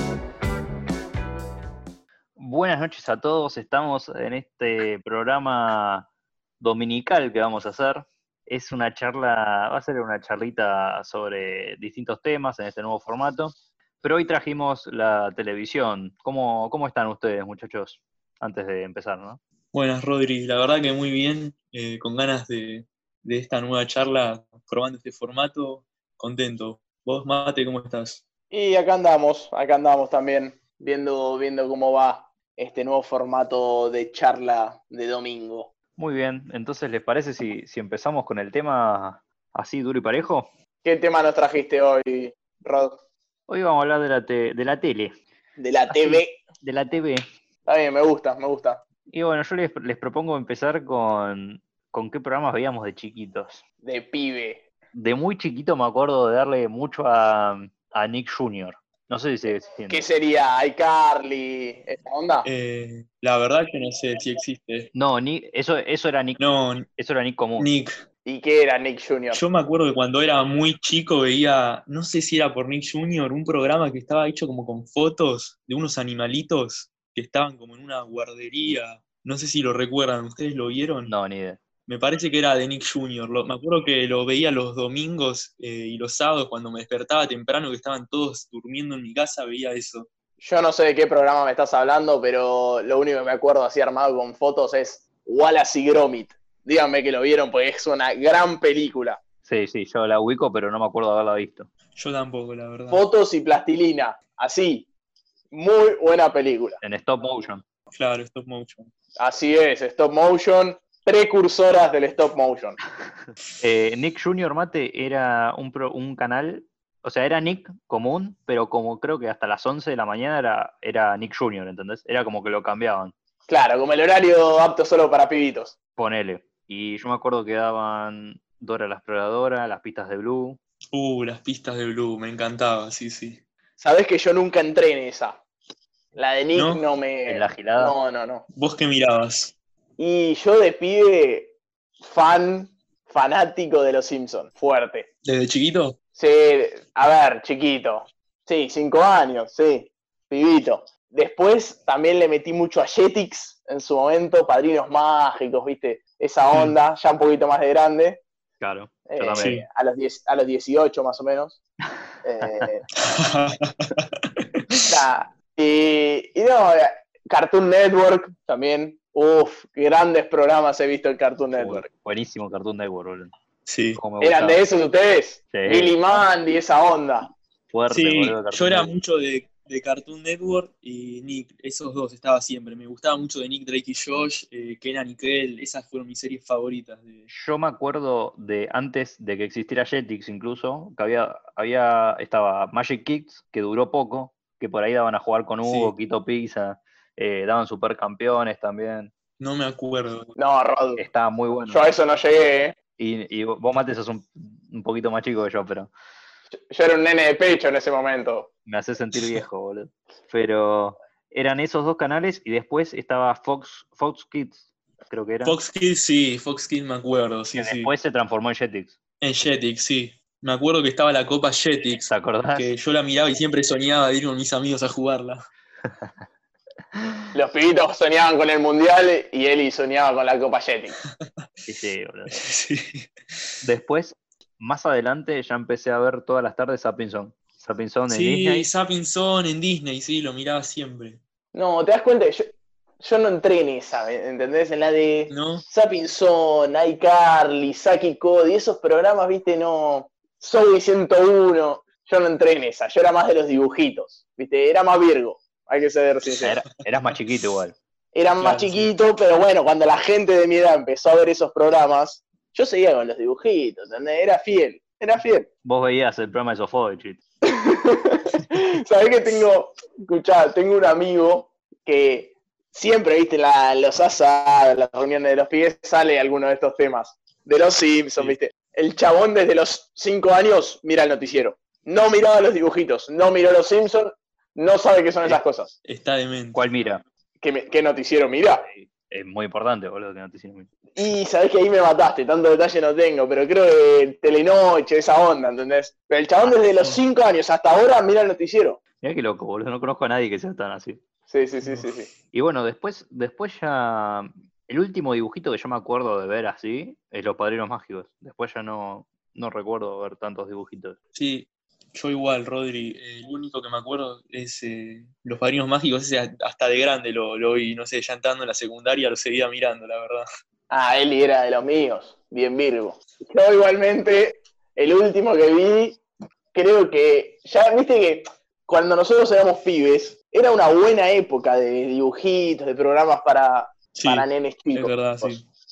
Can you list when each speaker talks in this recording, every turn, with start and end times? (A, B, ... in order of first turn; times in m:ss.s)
0:02.4-0:06.1 A
0:06.6-0:19.4 A
0:19.7-0:28.2 B
0:28.5-0:35.7 C
0:36.0-0:40.5 A
0:40.8-0:43.0 C
0:43.5-0:45.2 A
0:45.6-0:46.4 C
0:45.9-0:47.3 A
0:47.7-0:48.8 C
0:49.1-0:53.6 A
0:53.8-0:54.6 C
0:54.9-1:00.0 A
0:59.9-1:02.5 C
1:02.4-1:04.9 B
1:05.0-1:06.4 A
1:06.4-1:06.9 B
1:07.0-1:07.7 A
1:07.6-1:08.0 B
1:08.2-1:09.4 C
1:09.3-1:21.1 B
1:21.1-1:21.6 A
1:21.9-1:30.1 B
1:30.4-1:39.2 C
1:39.4-1:41.7 A
1:42.0-1:43.0 B
1:42.9-1:44.9 C
1:45.5-1:46.8 C
1:46.8-1:47.6 A
1:47.9-1:48.9 B
1:49.2-1:52.8 C
1:53.6-2:03.1 A
2:03.5-2:05.7 C
2:06.0-2:10.6 A
2:10.9-2:13.4 B
2:13.8-2:15.4 C
2:16.2-2:18.4 C
2:16.6-2:16.8 B
2:17.3-2:18.0 A
2:18.5-2:19.5 B
2:20.0-2:25.1 C
2:25.2-2:26.0 B
2:26.2-2:38.2 C
2:38.6-2:39.6 A
2:39.1-2:41.6 C
2:39.4-2:39.6 B
2:42.2-2:42.8 C
2:42.4-2:42.7 A
2:43.0-2:44.9 B
2:44.9-2:51.9 C
2:51.6-2:53.3 A
2:53.7-2:54.0 B
2:53.9-2:54.6 A
2:54.2-2:57.3 C
2:55.5-2:56.0 A
2:57.7-2:58.9 A
2:57.9-3:07.3 B
3:07.3-3:19.1 A
3:15.6-3:15.9 B
3:19.4-3:20.3 B
3:20.4-3:21.0 C
3:21.0-3:21.8 A
3:21.7-3:22.8 C
3:23.0-3:25.9 A
3:26.7-3:28.5 C
3:28.7-3:35.6 A
3:35.4-3:37.9 B
3:37.6-3:39.0 A
3:39.2-3:45.4 B
3:42.1-3:42.7 A
3:45.8-3:46.2 A
3:47.0-3:47.2 A
3:47.3-3:51.0 C
3:51.7-3:52.4 A
3:52.3-3:53.5 B
3:53.6-3:58.7 A
3:58.1-4:01.2 B
4:01.5-4:16.6 C
4:05.3-4:05.6 B
4:16.4-4:17.8 A
4:18.1-4:25.5 C
4:18.4-4:19.0 B
4:25.6-4:27.2 A
4:27.5-4:45.7 C
4:45.2-4:46.7 B
4:46.6-4:47.0 A
4:47.4-4:48.7 C
4:48.7-4:50.7 A
4:51.0-4:58.8 C
4:59.0-5:01.0 A
5:01.3-5:02.1 C
5:01.6-5:01.9 B
5:02.3-5:11.0 A
5:11.1-5:20.3 B
5:20.7-5:26.0 C
5:26.5-5:35.4 C
5:34.0-5:35.5 B